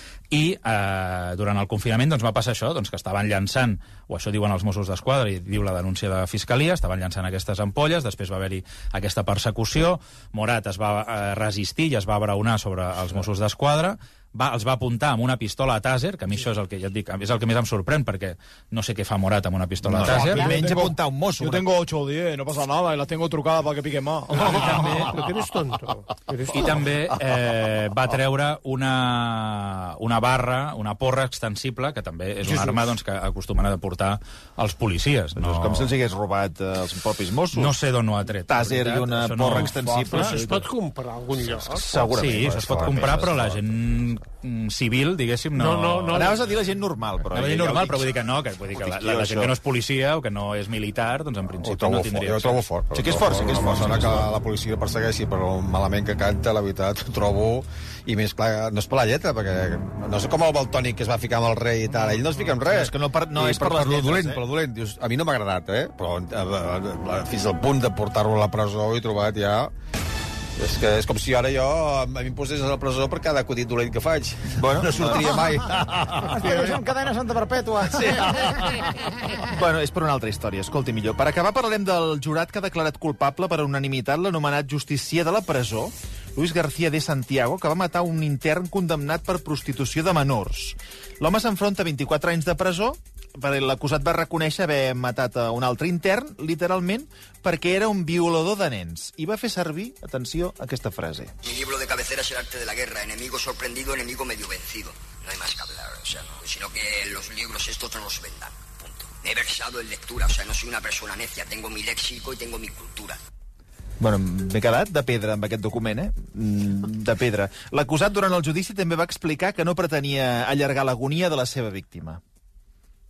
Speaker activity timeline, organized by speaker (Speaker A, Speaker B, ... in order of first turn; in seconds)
Speaker A: 0.3-20.5, 24.3-25.2, 26.5-35.9, 37.5-40.6, 42.2-46.3, 47.3-52.7
Speaker B: 19.9-21.7, 35.4-37.8, 38.4-40.4, 41.6-43.4, 46.1-48.1, 48.7-49.5, 52.9-54.3, 62.1-64.4, 74.5-75.7, 77.9-78.5, 79.5-101.3, 114.0-122.2
Speaker C: 20.0-25.1
Speaker D: 24.4-26.8, 32.5-32.8, 40.1-42.0, 45.6-46.4
Speaker E: 39.8-40.4, 41.9-43.6, 51.6-69.7, 70.6-76.5
Speaker F: 76.2-78.8
Speaker G: 101.4-113.2